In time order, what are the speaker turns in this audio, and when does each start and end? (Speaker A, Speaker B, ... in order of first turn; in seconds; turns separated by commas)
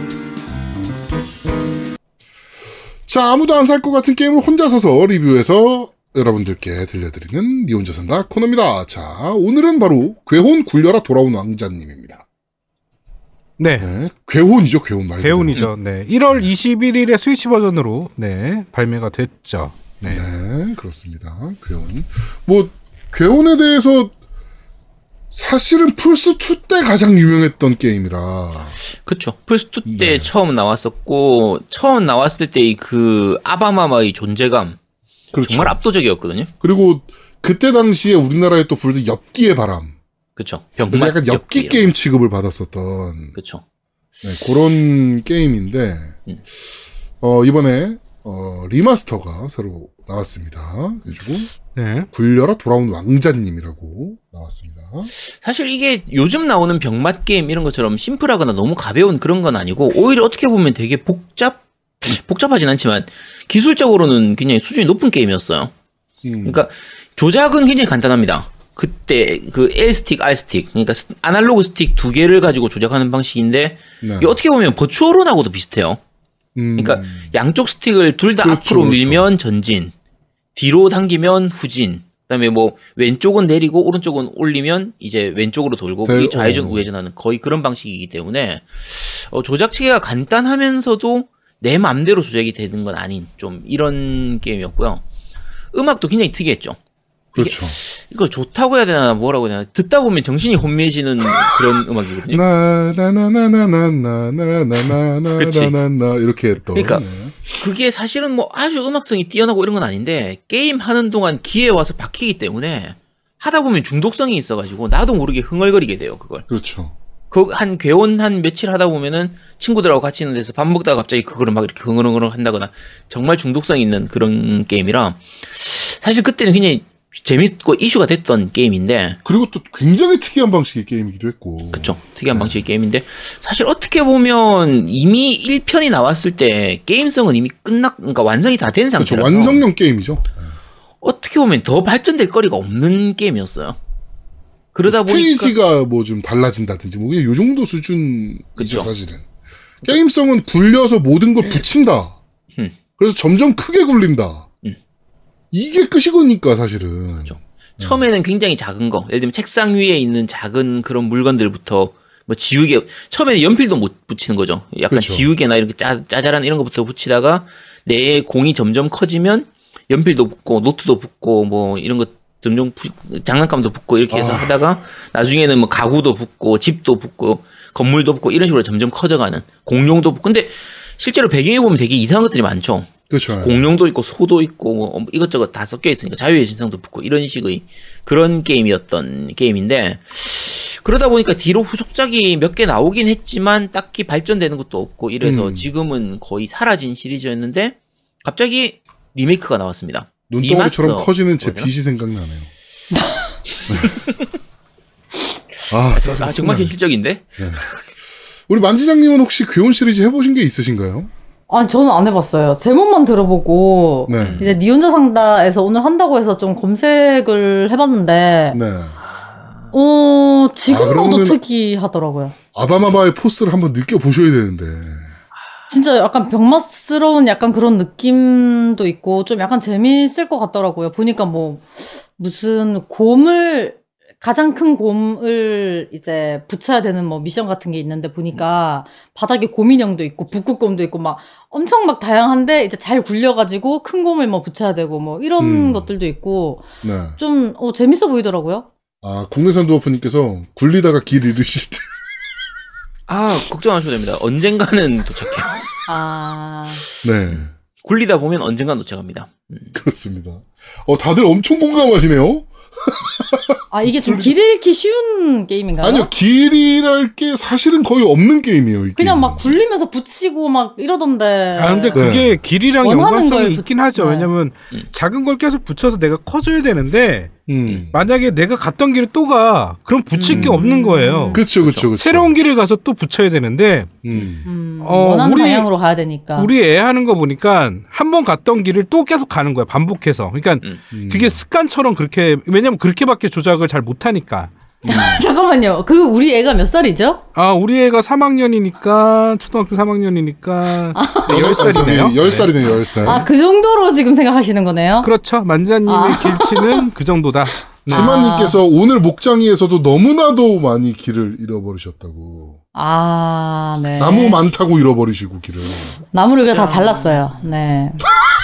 Speaker A: 3.1-12.2, Speaker B: 13.6-13.9, Speaker A: 13.8-15.6, Speaker B: 15.2-20.2, Speaker A: 20.0-24.1, Speaker A: 25.3-28.8, Speaker C: 29.1-34.8, Speaker A: 29.9-30.3, Speaker A: 35.3-35.8, Speaker C: 35.4-36.5, Speaker A: 36.6-39.9, Speaker C: 40.4-41.9, Speaker A: 40.9-43.4, Speaker C: 43.4-43.6, Speaker A: 44.2-46.2, Speaker A: 47.2-51.5, Speaker B: 51.8-52.1, Speaker A: 52.1-55.1, Speaker C: 55.3-65.7, Speaker A: 66.2-66.6, Speaker C: 66.5-76.0, Speaker A: 74.0-74.4, Speaker A: 76.6-77.3, Speaker C: 76.8-79.9, Speaker A: 78.4-79.3, Speaker C: 80.5-95.0, Speaker A: 86.0-86.9, Speaker C: 95.7-96.8, Speaker A: 97.3-97.8, Speaker C: 97.4-102.4, Speaker A: 102.3-107.5, Speaker C: 105.3-105.8, Speaker C: 106.7-116.5, Speaker A: 116.5-116.9, Speaker C: 117.3-129.2, Speaker A: 129.2-132.6, Speaker C: 131.7-139.6, Speaker A: 139.0-140.6, Speaker C: 141.0-143.8, Speaker C: 144.7-145.5, Speaker A: 144.9-149.2, Speaker C: 148.6-148.9, Speaker A: 149.8-152.2, Speaker A: 153.0-154.5, Speaker A: 155.5-158.0, Speaker C: 157.3-201.7, Speaker A: 164.9-165.3, Speaker A: 174.1-174.5, Speaker A: 183.1-183.6, Speaker A: 195.2-195.7, Speaker A: 200.3-202.5, Speaker D: 202.9-203.4, Speaker A: 203.7-204.0, Speaker A: 205.7-206.8, Speaker C: 205.9-207.8, Speaker A: 207.4-207.6, Speaker A: 208.5-211.1, Speaker D: 211.5-218.6, Speaker A: 214.1-214.4, Speaker C: 214.2-214.6, Speaker A: 218.5-219.0, Speaker C: 219.1-219.7, Speaker D: 219.7-222.3, Speaker A: 220.7-221.4, Speaker A: 222.6-225.1, Speaker D: 225.7-248.7, Speaker A: 245.4-245.9, Speaker A: 246.8-247.2, Speaker A: 249.0-251.9, Speaker C: 253.1-255.6, Speaker D: 255.9-256.8, Speaker A: 257.0-257.5, Speaker C: 257.3-259.7, Speaker A: 259.7-264.3, Speaker D: 263.7-266.1, Speaker A: 265.8-269.6, Speaker D: 269.0-272.2, Speaker B: 271.6-277.3, Speaker A: 271.9-272.4, Speaker D: 272.8-274.3, Speaker A: 277.5-278.0, Speaker B: 277.9-281.4, Speaker C: 280.1-280.5, Speaker A: 280.3-280.7, Speaker D: 280.5-281.4, Speaker A: 281.3-282.3, Speaker C: 281.6-281.9, Speaker B: 282.0-284.0, Speaker A: 284.0-284.5, Speaker D: 284.4-286.5, Speaker B: 284.8-285.7, Speaker B: 286.4-294.5, Speaker A: 290.9-291.4, Speaker A: 294.8-295.2, Speaker D: 294.9-297.2, Speaker B: 297.4-302.5, Speaker D: 300.9-301.9, Speaker A: 301.3-303.3, Speaker D: 303.0-305.1, Speaker B: 305.0-308.1, Speaker D: 305.9-306.9, Speaker D: 307.9-308.6, Speaker A: 307.9-312.6, Speaker D: 312.7-314.4, Speaker A: 314.0-316.0, Speaker D: 316.1-318.0, Speaker C: 316.5-317.3